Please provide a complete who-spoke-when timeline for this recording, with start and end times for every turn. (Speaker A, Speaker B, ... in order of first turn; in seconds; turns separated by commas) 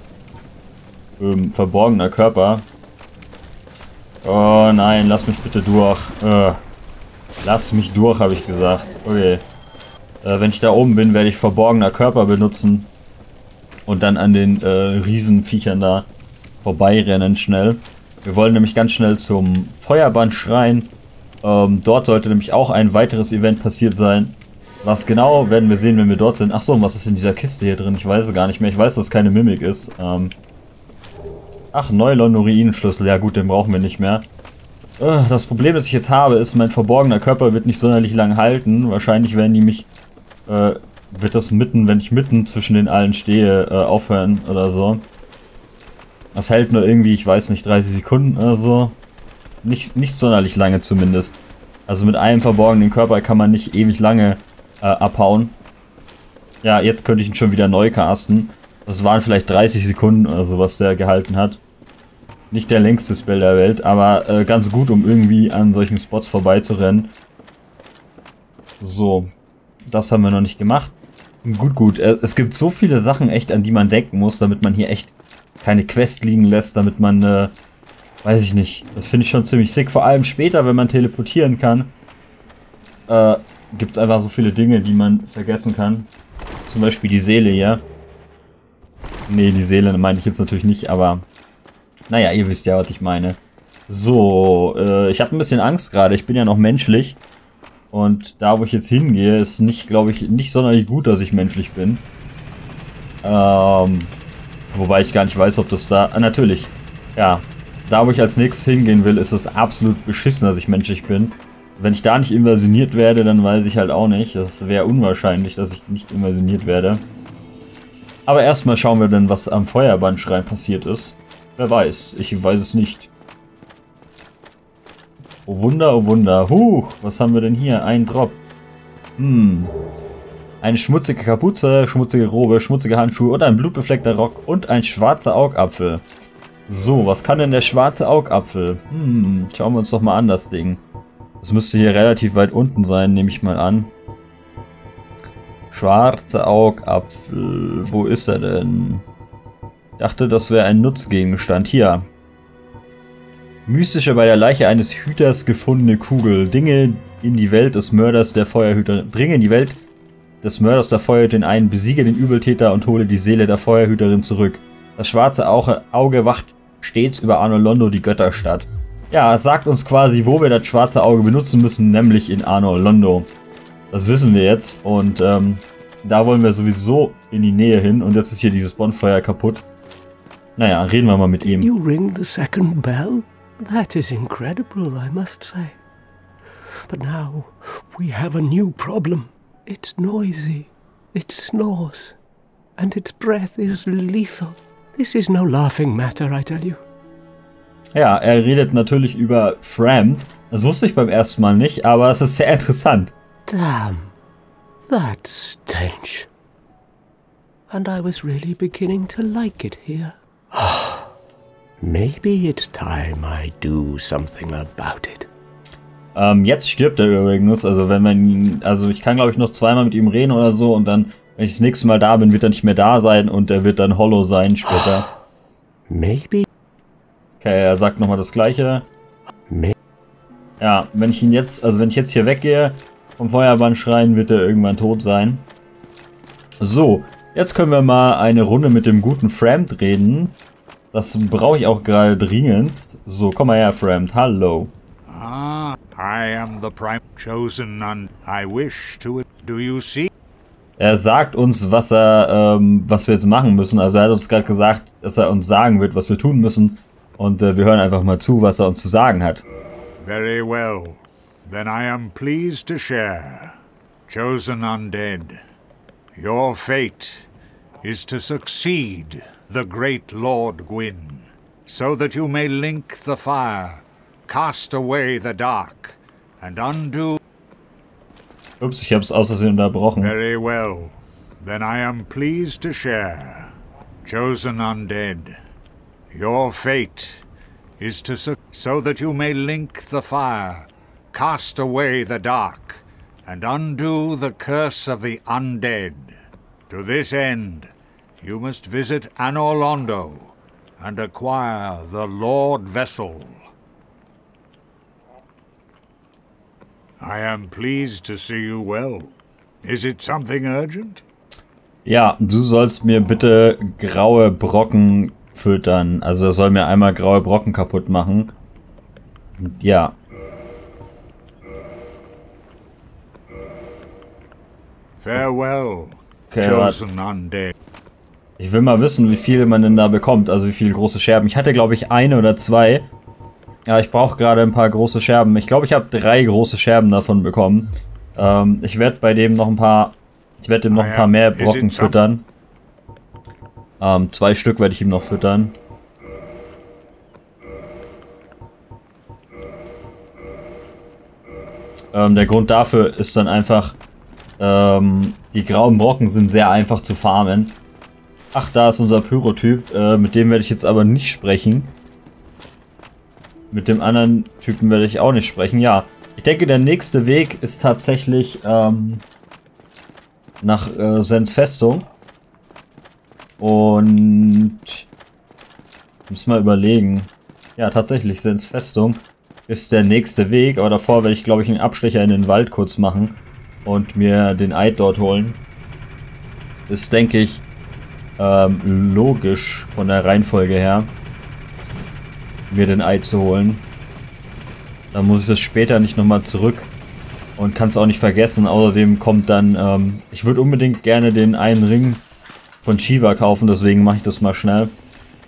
Speaker A: 1.2-2.7, Speaker A: 4.2-6.6, Speaker A: 7.4-9.4, Speaker A: 10.2-12.9, Speaker A: 13.9-16.1, Speaker A: 16.6-20.9, Speaker A: 21.4-30.3, Speaker A: 31.7-34.2, Speaker A: 35.0-39.9, Speaker A: 40.5-45.0, Speaker A: 46.3-49.0, Speaker A: 49.6-55.5, Speaker A: 56.6-61.6, Speaker A: 62.5-67.1, Speaker A: 68.8-69.3, Speaker A: 69.8-77.5, Speaker A: 78.2-81.9, Speaker A: 83.1-86.1, Speaker A: 86.7-87.8, Speaker A: 89.3-91.2, Speaker A: 92.1-97.2, Speaker A: 97.9-102.0, Speaker A: 103.2-104.1, Speaker A: 104.7-117.0, Speaker A: 118.2-123.1, Speaker A: 125.5-128.4, Speaker A: 129.2-129.7, Speaker A: 130.6-136.0, Speaker A: 136.7-140.8, Speaker A: 141.4-143.9, Speaker A: 145.7-149.0, Speaker A: 150.0-152.1, Speaker A: 153.7-159.8, Speaker A: 160.4-173.3, Speaker A: 173.9-179.6, Speaker A: 180.6-181.7, Speaker B: 181.4-185.8, Speaker B: 186.9-192.2, Speaker B: 192.8-196.8, Speaker A: 197.9-203.1, Speaker B: 203.5-204.1, Speaker B: 204.9-206.3, Speaker B: 207.7-211.0, Speaker B: 211.8-215.3, Speaker A: 216.1-225.1, Speaker B: 225.9-226.4, Speaker A: 227.4-228.9, Speaker B: 229.5-229.7, Speaker A: 230.6-235.5, Speaker A: 236.6-240.3, Speaker A: 240.9-244.7, Speaker C: 245.1-250.1, Speaker A: 250.8-259.4, Speaker C: 260.0-263.6, Speaker C: 264.1-265.4, Speaker C: 266.1-267.3, Speaker C: 267.8-277.2, Speaker A: 278.6-280.1, Speaker C: 280.0-283.5, Speaker C: 284.0-285.4, Speaker C: 286.1-287.2, Speaker C: 287.8-296.2, Speaker C: 296.7-303.4, Speaker C: 307.0-309.1, Speaker C: 309.6-311.0, Speaker A: 311.8-318.3, Speaker A: 319.4-319.9, Speaker C: 325.0-327.5, Speaker A: 326.3-326.8, Speaker A: 328.4-332.9, Speaker A: 333.6-342.2, Speaker C: 340.7-342.0, Speaker A: 343.8-345.6, Speaker A: 351.9-353.8, Speaker A: 354.4-357.6, Speaker A: 358.3-361.7, Speaker A: 363.5-369.0, Speaker A: 370.4-371.9, Speaker A: 373.4-374.9, Speaker A: 376.1-385.4, Speaker A: 386.7-387.4, Speaker A: 388.2-390.9, Speaker A: 392.5-393.6, Speaker A: 394.9-396.7, Speaker A: 397.4-402.0, Speaker A: 402.6-404.7